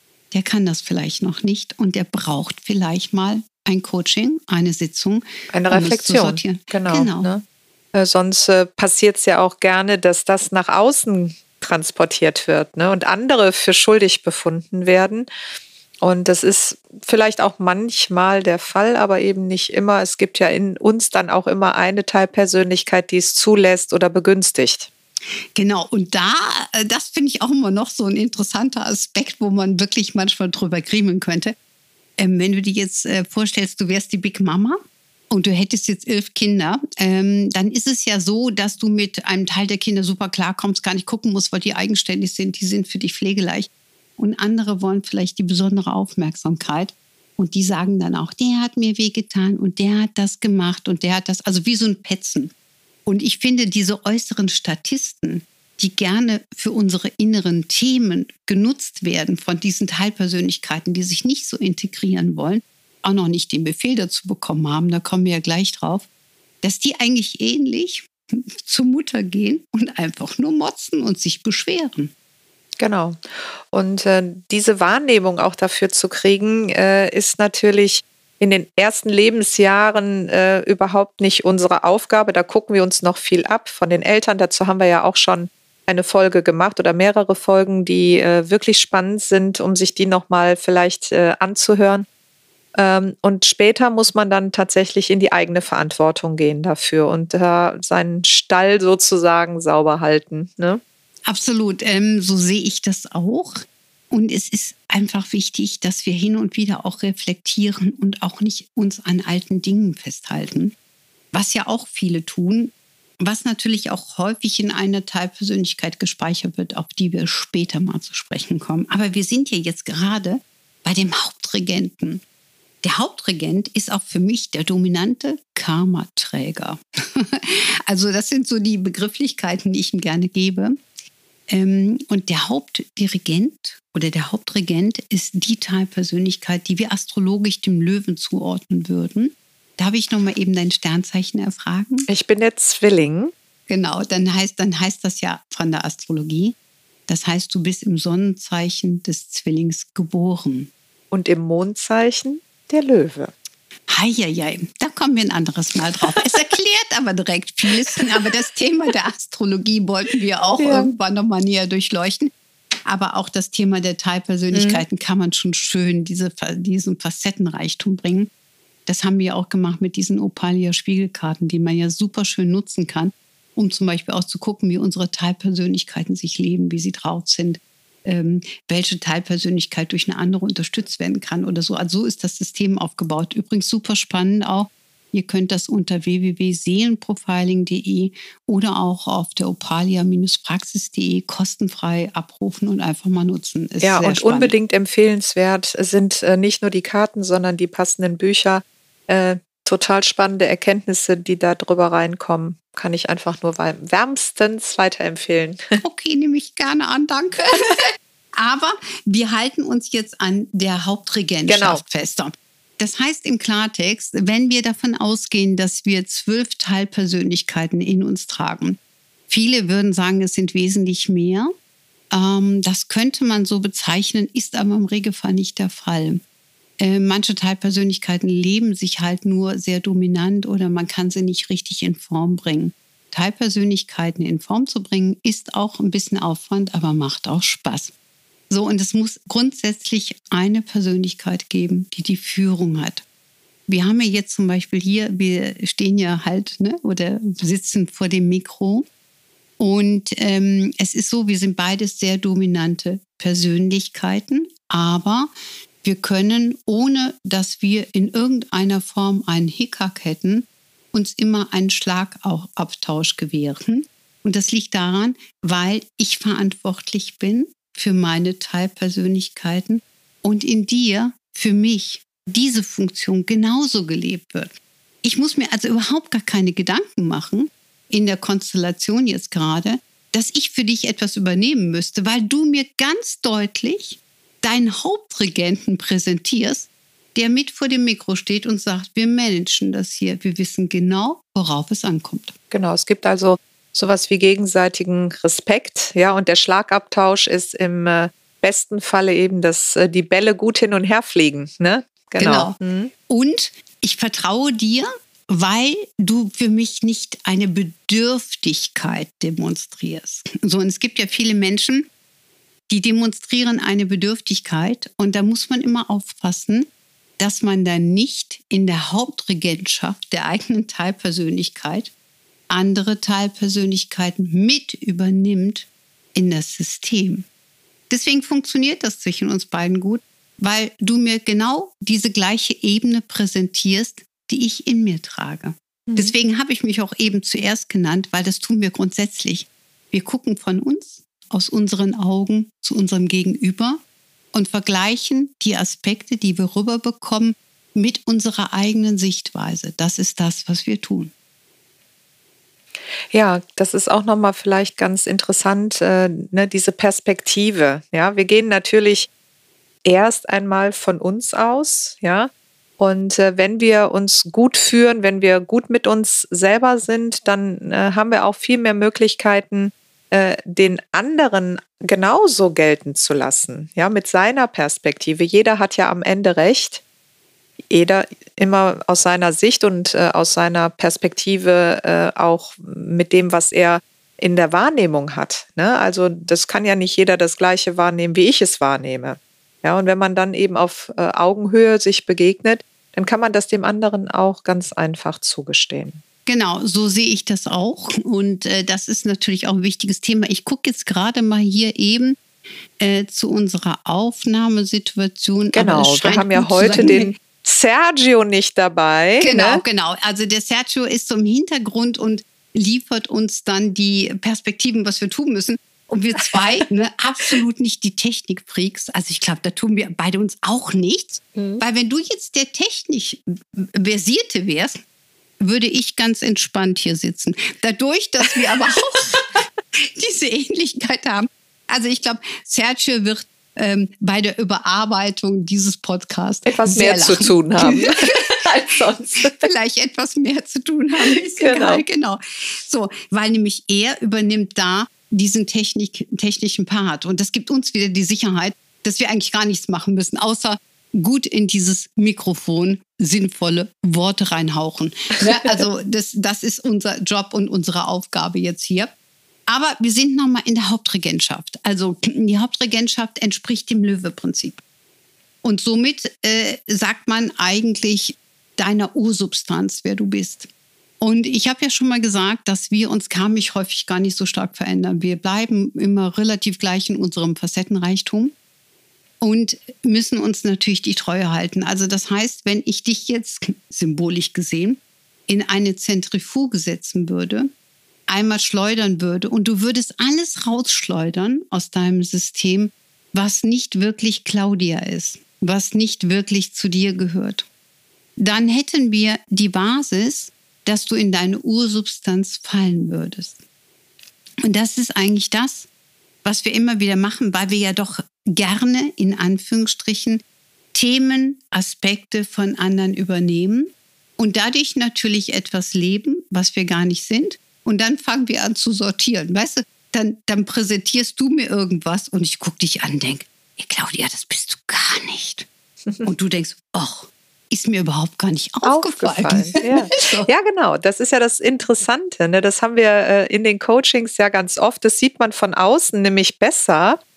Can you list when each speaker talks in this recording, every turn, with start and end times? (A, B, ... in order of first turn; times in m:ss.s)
0:00.3-0:07.3 A
0:05.5-0:07.4 B
0:07.9-0:15.3 B
0:16.0-0:24.9 B
0:25.6-0:31.5 A
0:32.2-0:52.5 A
0:53.0-1:06.0 A
1:06.6-1:12.1 A
1:12.8-1:32.0 B
1:32.8-1:40.8 B
1:41.3-1:50.7 A
1:51.3-2:02.2 A
2:02.8-2:10.8 A
2:11.5-2:22.1 A
2:22.1-2:23.3 B
2:23.7-2:26.5 A
2:27.1-2:30.7 A
2:31.1-2:33.3 B
2:33.9-2:42.3 A
2:40.6-2:40.9 B
2:42.8-2:48.3 A
2:44.5-2:44.8 B
2:48.8-3:14.5 A
3:13.8-3:25.6 B
3:25.8-3:41.5 A
3:31.5-3:31.8 B
3:42.1-3:46.2 A
3:46.8-3:57.9 A
3:58.5-4:03.0 A
4:03.7-4:08.9 A
4:09.6-4:15.3 A
4:15.8-4:34.5 A
4:35.0-4:52.3 A
4:52.5-5:02.9 B
5:02.2-5:02.6 A
5:03.1-5:11.9 A
5:12.7-5:21.9 A
5:22.5-5:27.2 A
5:27.9-5:43.8 A
5:35.9-5:36.1 B
5:44.3-5:51.1 A
5:53.1-5:59.1 B
5:59.8-6:16.8 B
6:17.7-6:36.0 B
6:36.3-6:42.2 A
6:42.8-6:47.1 A
6:45.5-6:49.6 B
6:49.2-7:04.8 A
7:01.3-7:01.6 B
7:05.4-7:09.2 A
7:09.7-7:38.9 A
7:16.5-7:19.4 B
7:21.0-7:21.8 B
7:39.5-7:44.6 A
7:45.4-7:50.5 A
7:51.0-7:58.3 A
7:59.2-8:07.5 A
8:08.1-8:17.4 A
8:18.2-8:23.4 A
8:24.4-8:25.7 A
8:26.2-8:30.2 A
8:30.7-8:45.5 A
8:46.0-8:50.3 A
8:48.6-8:57.0 B